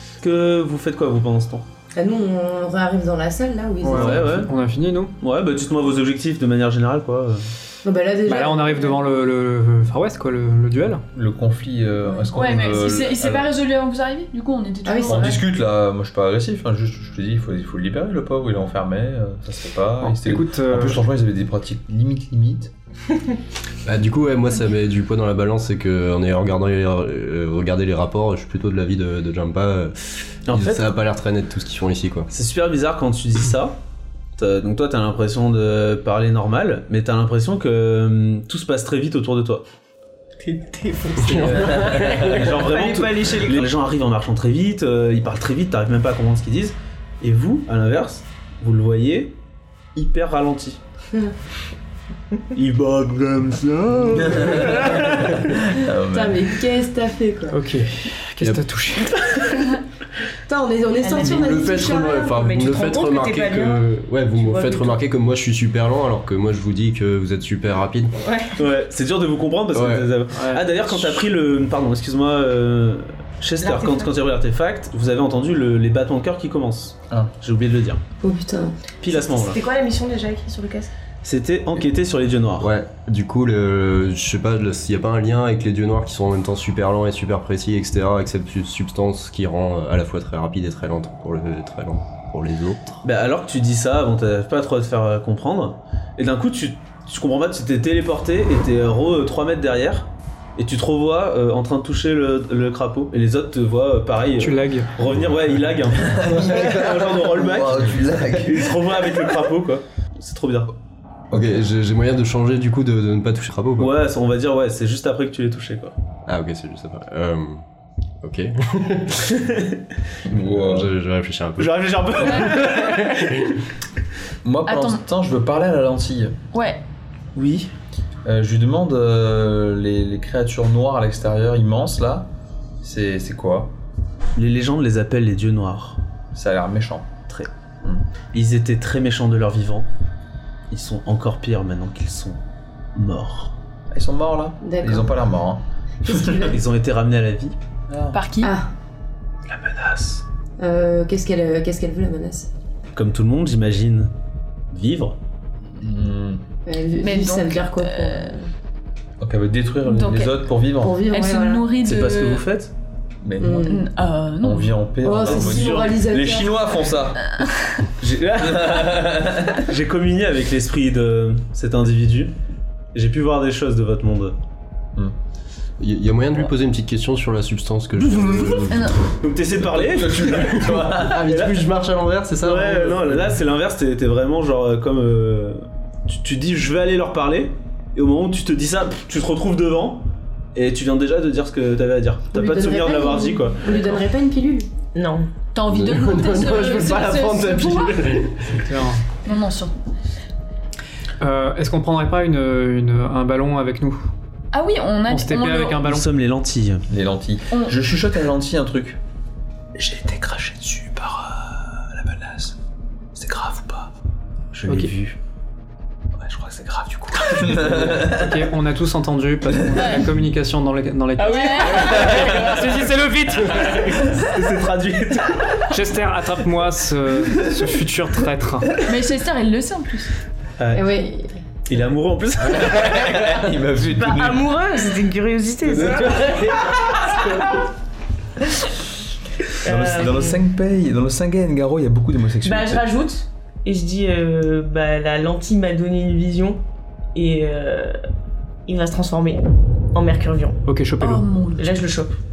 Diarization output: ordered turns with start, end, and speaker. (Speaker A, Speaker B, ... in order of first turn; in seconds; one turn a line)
Speaker A: 0.2-1.7
Speaker B: 1.9-4.5
Speaker C: 3.8-5.1
Speaker A: 3.9-4.5
Speaker A: 5.2-7.5
Speaker B: 7.8-9.1
Speaker C: 8.3-11.0
Speaker D: 11.1-13.5
Speaker B: 12.0-12.3
Speaker E: 12.3-15.4
Speaker B: 14.8-15.4
Speaker D: 15.1-22.7
Speaker C: 20.0-21.0
Speaker F: 23.9-32.3
Speaker A: 30.5-30.9
Speaker A: 32.3-33.8
Speaker A: 34.4-39.6
Speaker G: 40.4-43.7
Speaker F: 41.2-42.5
Speaker A: 41.3-49.4
Speaker A: 50.0-50.8
Speaker A: 52.5-55.7
Speaker D: 54.1-56.5
Speaker B: 56.0-57.6
Speaker C: 57.5-59.3
Speaker B: 60.5-62.3
Speaker G: 61.0-65.0
Speaker F: 61.2-68.1
Speaker G: 68.2-68.6
Speaker A: 68.6-78.0
Speaker F: 69.7-70.1
Speaker C: 70.3-70.8
Speaker G: 73.6-74.1
Speaker B: 78.2-78.8
Speaker A: 79.0-79.6
Speaker G: 79.1-80.9
Speaker A: 81.2-82.7
Speaker F: 82.6-93.0
Speaker A: 93.0-110.7
Speaker C: 104.4-104.9
Speaker D: 106.0-109.1
Speaker F: 111.3-114.0
Speaker A: 113.8-116.0
Speaker F: 116.3-117.6
Speaker F: 118.2-119.4
Speaker A: 119.3-119.8
Speaker D: 120.3-120.9
Speaker F: 120.3-123.5
Speaker A: 121.6-123.4
Speaker D: 124.4-126.4
Speaker E: 124.7-125.0
Speaker E: 126.5-126.8
Speaker A: 127.4-127.7
Speaker D: 128.2-132.3
Speaker D: 132.8-133.7
Speaker A: 134.4-136.0
Speaker D: 136.3-137.1
Speaker A: 138.3-139.9
Speaker A: 140.7-142.4
Speaker A: 142.9-143.6
Speaker D: 143.9-146.5
Speaker B: 144.6-145.2
Speaker A: 146.0-147.6
Speaker D: 147.9-148.2
Speaker E: 148.1-148.5
Speaker B: 148.4-148.7
Speaker A: 149.5-150.2
Speaker B: 150.6-152.5
Speaker A: 152.9-154.1
Speaker A: 154.7-155.2
Speaker D: 155.7-156.4
Speaker B: 156.7-158.5
Speaker E: 157.0-158.4
Speaker D: 159.2-161.0
Speaker E: 159.8-160.4
Speaker B: 160.8-161.7
Speaker E: 161.1-162.5
Speaker A: 161.8-162.7
Speaker D: 163.2-163.7
Speaker B: 163.4-163.9
Speaker E: 163.6-164.8
Speaker D: 164.4-167.3
Speaker B: 165.0-166.8
Speaker A: 165.2-165.9
Speaker E: 167.2-167.9
Speaker A: 168.0-172.3
Speaker D: 168.4-169.7
Speaker A: 172.9-174.4
Speaker F: 175.8-178.9
Speaker A: 178.1-178.6
Speaker E: 178.7-179.0
Speaker A: 179.2-181.7
Speaker D: 179.8-181.1
Speaker F: 180.2-183.4
Speaker A: 182.4-194.0
Speaker B: 192.3-194.7
Speaker G: 194.9-195.3
Speaker E: 195.5-198.2
Speaker F: 195.7-198.7
Speaker C: 198.5-199.0
Speaker E: 199.2-199.7
Speaker C: 201.2-204.1
Speaker E: 204.5-205.8
Speaker C: 205.1-206.1
Speaker A: 205.8-206.8
Speaker D: 206.9-209.0
Speaker A: 209.8-212.5
Speaker A: 213.2-213.9
Speaker A: 214.5-215.2
Speaker C: 214.7-214.9
Speaker A: 216.2-217.8
Speaker D: 217.2-218.4
Speaker C: 217.5-224.3
Speaker E: 219.7-220.1
Speaker E: 221.2-222.3
Speaker A: 223.5-225.7
Speaker C: 225.7-228.8
Speaker E: 228.9-230.1
Speaker A: 230.6-230.8
Speaker B: 230.7-231.4
Speaker A: 231.7-233.4
Speaker D: 232.4-234.5
Speaker G: 233.8-237.4
Speaker D: 235.8-237.1
Speaker A: 235.8-236.6
Speaker G: 239.6-240.4
Speaker D: 239.6-242.8
Speaker G: 242.4-246.6
Speaker G: 247.1-248.0
Speaker G: 248.7-250.6
Speaker C: 250.7-251.3
Speaker E: 251.0-251.9
Speaker G: 251.5-252.2